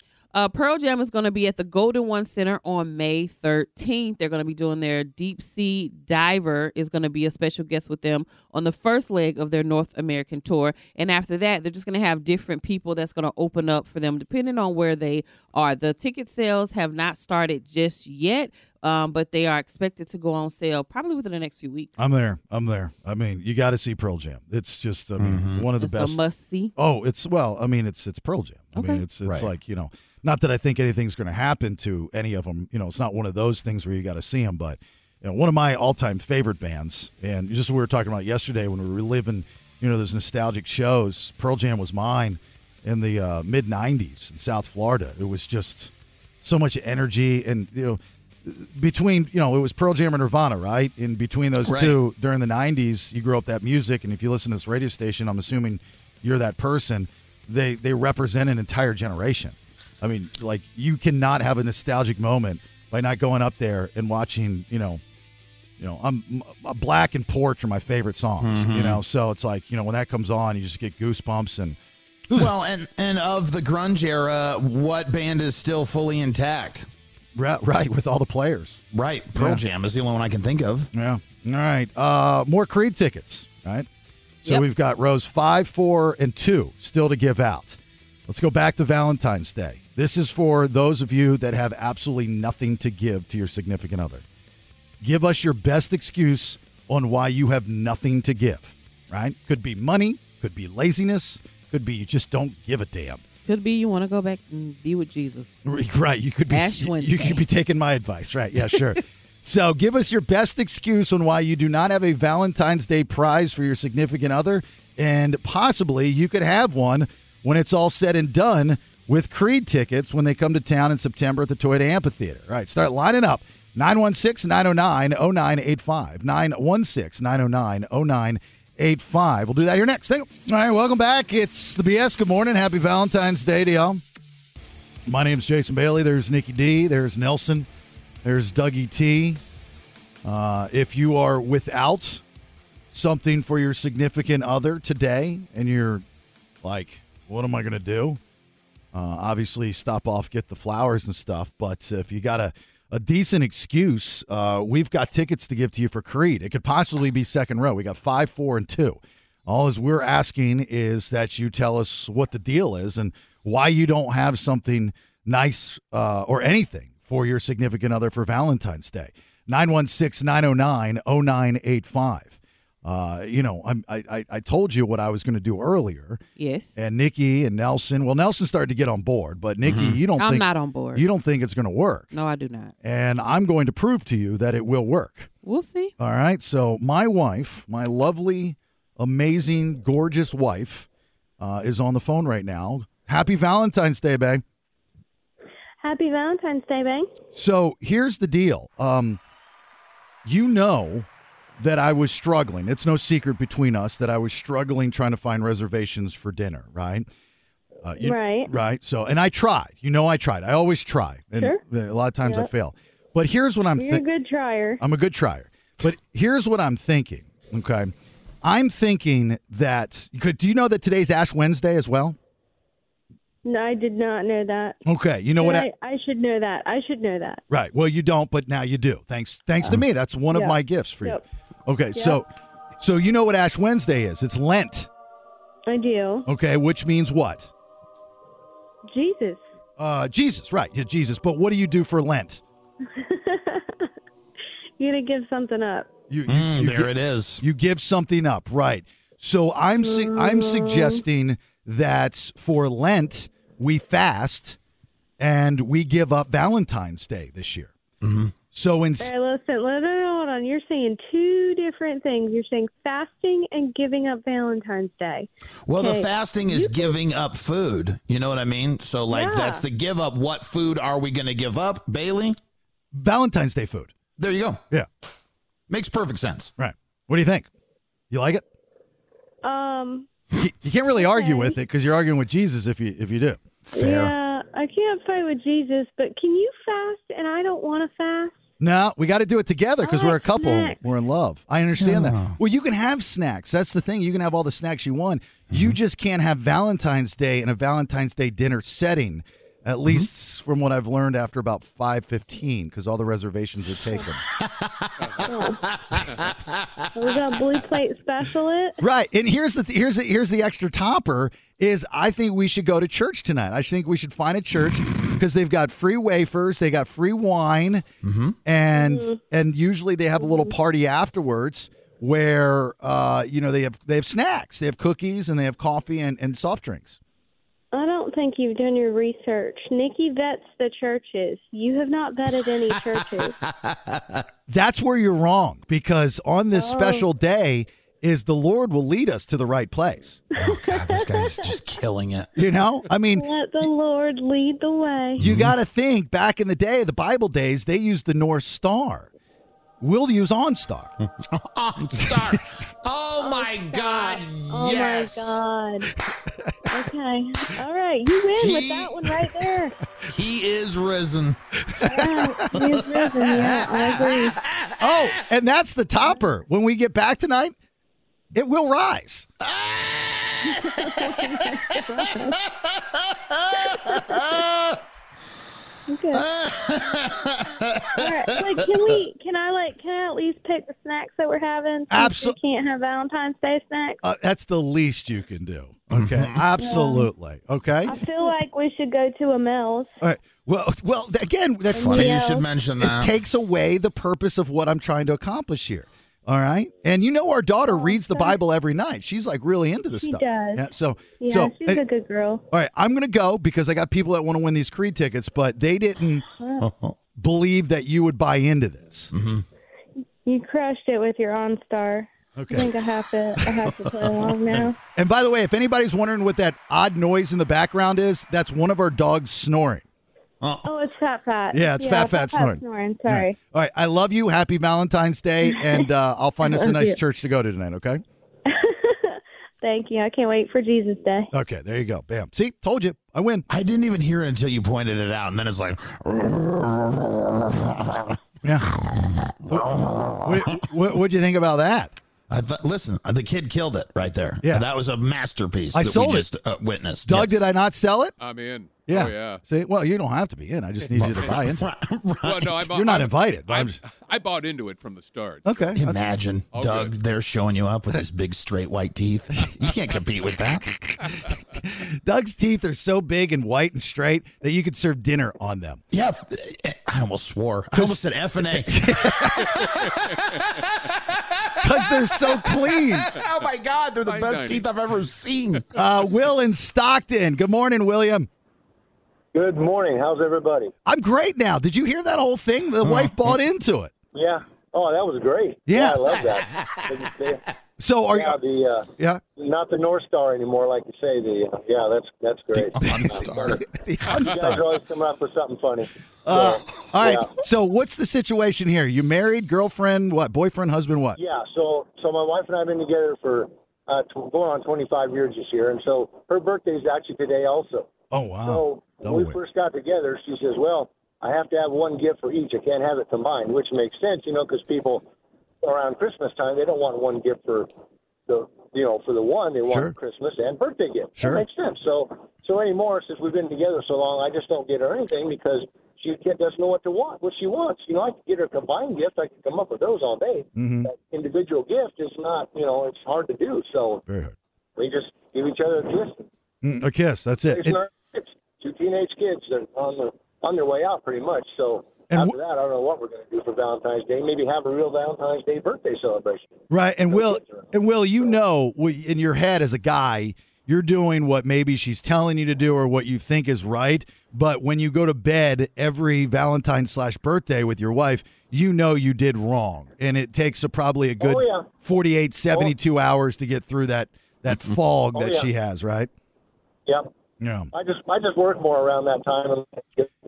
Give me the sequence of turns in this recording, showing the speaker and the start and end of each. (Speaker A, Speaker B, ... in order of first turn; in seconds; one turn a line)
Speaker A: 0.3-22.0
Speaker B: 22.0-26.2
Speaker C: 25.2-25.6
Speaker A: 25.8-26.7
Speaker B: 26.8-65.0
Speaker A: 28.7-29.0
Speaker C: 51.6-52.0
Speaker B: 65.8-71.8
Speaker C: 68.4-69.0
Speaker C: 72.3-76.9
Speaker B: 77.3-78.8
Speaker C: 78.9-80.9
Speaker B: 79.3-79.6
Speaker B: 80.9-83.9
Speaker B: 84.4-94.2
Speaker B: 95.0-103.2
Speaker A: 103.5-105.6
Speaker B: 105.6-134.0
Speaker A: 106.5-107.4
Speaker B: 135.1-137.7
Speaker B: 138.2-139.4
Speaker B: 140.2-142.2
Speaker B: 142.9-146.0
Speaker B: 146.6-148.2
Speaker B: 148.9-176.2
Speaker A: 176.4-176.8
Speaker B: 176.8-182.1
Speaker C: 179.6-180.0
Speaker A: 180.2-181.0
Speaker A: 182.1-182.7
Speaker B: 182.8-185.3
Speaker A: 185.4-185.9
Speaker B: 186.0-190.9
Speaker B: 191.4-194.4
Speaker D: 195.8-197.1
Speaker B: 197.3-199.2
Speaker B: 200.2-201.1
Speaker B: 201.6-207.1
Speaker B: 207.8-214.0
Speaker D: 208.0-208.5
Speaker D: 212.2-212.5
Speaker D: 213.8-214.8
Speaker B: 214.8-217.9
Speaker B: 218.4-222.2
Speaker D: 223.4-224.8
Speaker B: 224.8-225.7
Speaker D: 225.4-227.4
Speaker B: 227.5-232.3
Speaker D: 230.3-231.2
Speaker D: 231.9-232.2
Speaker B: 232.8-234.9
Speaker D: 235.7-236.3
Speaker B: 236.3-237.5
Speaker D: 238.9-239.4
Speaker B: 239.8-242.4
Speaker D: 243.0-243.7
Speaker D: 244.8-245.9
Speaker B: 246.1-254.6
Speaker C: 246.3-247.4
Speaker D: 249.8-251.0
Speaker B: 255.2-257.7
Speaker C: 258.0-258.3
Speaker B: 258.5-259.1
Speaker D: 259.0-267.0
Speaker C: 265.7-272.4
Speaker D: 269.1-269.6
Speaker B: 272.9-273.9
Speaker C: 274.2-274.6
Speaker C: 275.7-276.5
Speaker B: 276.6-277.5
Speaker B: 278.1-278.4
Speaker D: 279.4-280.1
Speaker B: 280.4-283.4
Speaker D: 280.9-281.6
Speaker C: 283.7-284.1
Speaker D: 283.7-288.4
Speaker B: 288.6-304.2
Speaker D: 289.8-290.8
Speaker C: 291.8-292.4
Speaker C: 295.5-295.8
Speaker C: 304.3-306.5
Speaker D: 305.3-305.6
Speaker D: 306.9-308.8
Speaker B: 308.8-317.8
Speaker C: 318.0-318.4
Speaker B: 318.4-327.0
Speaker D: 318.7-319.2
Speaker D: 320.2-320.5
Speaker D: 327.7-333.3
Speaker C: 332.7-334.2
Speaker B: 334.5-340.2
Speaker D: 336.5-337.1
Speaker C: 340.4-342.3
Speaker D: 340.4-341.5
Speaker B: 342.4-343.2
Speaker D: 343.1-345.2
Speaker C: 345.2-345.5
Speaker B: 345.2-349.1
Speaker B: 349.8-350.9
Speaker C: 351.0-355.4
Speaker B: 352.1-352.4
Speaker D: 353.2-355.9
Speaker D: 356.7-359.7
Speaker C: 358.3-359.4
Speaker C: 360.1-361.4
Speaker B: 361.7-362.6
Speaker D: 361.8-364.4
Speaker C: 362.5-364.8
Speaker B: 364.8-367.5
Speaker B: 368.3-369.3
Speaker C: 369.4-372.3
Speaker D: 370.5-372.4
Speaker C: 373.0-374.8
Speaker D: 373.8-374.4
Speaker D: 375.9-376.3
Speaker C: 376.1-379.0
Speaker D: 377.9-384.0
Speaker B: 381.9-382.4
Speaker B: 384.0-387.9
Speaker C: 385.9-386.4
Speaker D: 386.6-387.1
Speaker D: 387.9-389.9
Speaker B: 390.0-392.1
Speaker D: 391.7-392.4
Speaker C: 391.7-393.1
Speaker B: 392.8-401.8
Speaker D: 397.7-398.4
Speaker D: 399.9-400.7
Speaker D: 401.2-402.4
Speaker B: 402.5-406.2
Speaker D: 406.4-406.6
Speaker C: 406.6-406.9
Speaker B: 407.2-409.1
Speaker C: 409.1-409.4
Speaker D: 410.2-414.8
Speaker B: 412.4-412.7
Speaker B: 414.9-419.8
Speaker C: 420.4-420.7
Speaker D: 420.6-423.4
Speaker B: 421.5-428.0
Speaker D: 425.4-425.9
Speaker D: 426.4-427.0
Speaker D: 428.5-431.3
Speaker B: 431.3-433.4
Speaker C: 433.5-438.2
Speaker B: 438.4-438.7
Speaker C: 438.8-440.6
Speaker B: 439.5-441.9
Speaker C: 442.3-447.4
Speaker B: 445.7-446.3
Speaker B: 447.0-448.1
Speaker E: 448.2-449.4
Speaker B: 448.9-451.7
Speaker C: 450.9-452.7
Speaker E: 452.2-455.8
Speaker B: 452.7-453.8
Speaker B: 455.4-455.8
Speaker C: 455.8-460.6
Speaker E: 456.5-456.9
Speaker B: 460.8-465.8
Speaker C: 465.9-475.6
Speaker B: 467.7-469.5
Speaker E: 469.6-470.5
Speaker B: 471.6-473.1
Speaker E: 474.0-474.7
Speaker B: 475.7-478.3
Speaker F: 479.3-480.7
Speaker B: 480.9-483.9
Speaker C: 482.8-483.3
Speaker F: 484.1-487.4
Speaker B: 485.7-486.0
Speaker B: 487.8-488.4
Speaker F: 488.1-493.6
Speaker C: 492.5-494.6
Speaker B: 492.8-494.6
Speaker F: 494.3-497.3
Speaker B: 496.2-501.2
Speaker F: 501.1-507.9
Speaker B: 508.1-509.4
Speaker F: 508.4-515.0
Speaker F: 515.6-517.7
Speaker F: 518.3-534.0
Speaker B: 519.7-519.9
Speaker B: 521.2-521.4
Speaker B: 530.5-530.9
Speaker B: 534.1-534.3
Speaker F: 534.8-536.2
Speaker B: 536.6-537.8
Speaker F: 537.5-546.5
Speaker B: 542.1-542.3
Speaker B: 546.7-566.1
Speaker F: 547.1-548.3
Speaker F: 561.2-561.6
Speaker F: 565.1-565.5
Speaker B: 567.4-567.7
Speaker F: 567.7-570.1